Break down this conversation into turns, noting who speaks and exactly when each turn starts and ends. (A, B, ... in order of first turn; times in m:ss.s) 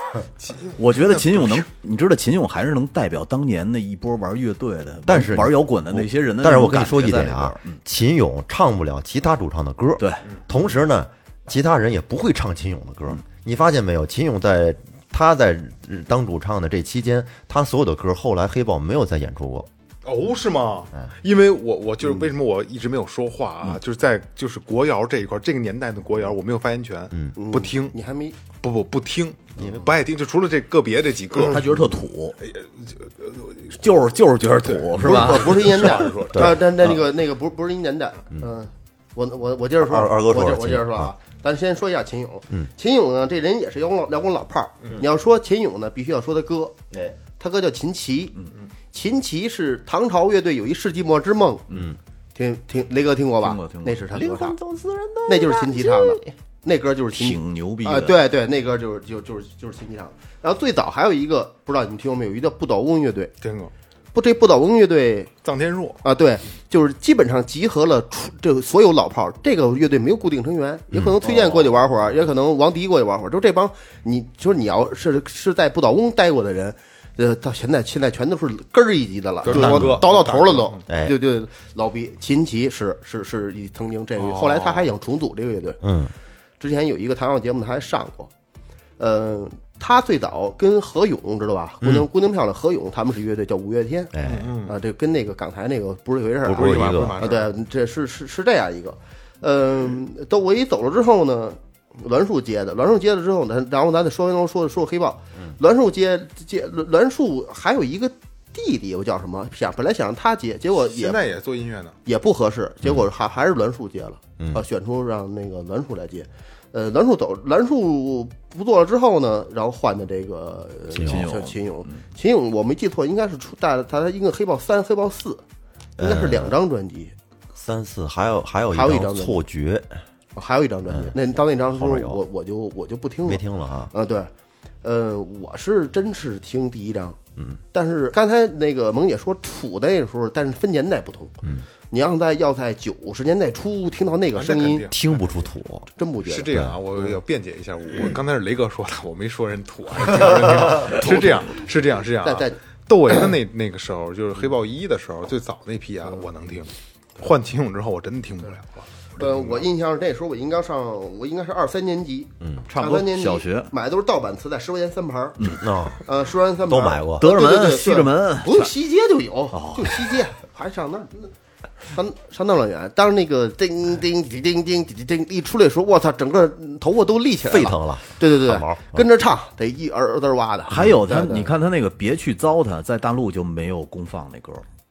0:00.4-0:01.6 A
0:00.8-0:07.8 B
0:05.1-0:19.7 C
0:10.0-0:10.2 B
0:20.0-0:28.0 A
0:27.4-0:28.4 D
0:28.6-0:31.6 A
0:29.6-0:29.8 C
0:31.4-0:32.4 B
0:32.4-0:33.7 A
0:33.7-0:35.9 B
0:34.6-0:36.5 A
0:35.0-0:48.4 D
0:36.3-0:36.6 C
0:39.8-0:41.1 C
0:46.9-0:47.2 C
0:48.9-0:51.7 D
0:51.7-0:52.0 C
0:52.4-0:54.6 D
0:53.4-0:54.1 B
0:54.1-0:56.3 C
0:55.3-1:03.3 D
0:57.1-0:58.2 B
1:03.4-1:03.7 A
1:04.1-1:05.3 D
1:05.4-1:06.0 A
1:06.0-1:25.8 D
1:10.9-1:11.2 C
1:19.4-1:20.8 A
1:19.5-1:20.1 C
1:20.9-1:21.2 C
1:24.2-1:24.9 A
1:25.8-1:26.1 C
1:26.6-1:28.3 D
1:29.0-1:34.1 D
1:31.8-1:32.1 C
1:34.1-1:34.6 C
1:34.2-1:34.7 A
1:34.6-1:51.2 D
1:36.5-1:37.3 C
1:36.5-1:37.5 A
1:50.8-1:52.0 A
1:52.0-2:05.4 D
1:52.8-1:53.1 C
1:54.4-1:54.6 C
2:01.0-2:02.0 B
2:06.0-2:06.6 C
2:06.0-2:07.1 D
2:07.6-2:10.0 C
2:08.7-2:09.4 D
2:10.4-2:14.3 D
2:10.9-2:11.2 C
2:11.7-2:12.2 C
2:13.2-2:13.9 C
2:14.8-2:17.2 D
2:17.7-2:24.9 D
2:24.4-2:25.4 A
2:24.9-2:25.9 C
2:26.0-2:27.0 D
2:26.2-2:39.6 A
2:26.5-2:26.8 C
2:32.2-2:32.6 D
2:39.2-2:45.4 D
2:42.4-2:42.7 C
2:42.7-2:43.7 B
2:45.6-2:46.0 C
2:46.0-2:51.3 D
2:46.7-2:47.3 C
2:47.2-2:48.7 B
2:49.5-2:50.1 B
2:51.9-3:01.5 D
2:57.4-2:59.0 C
3:00.7-3:04.7 B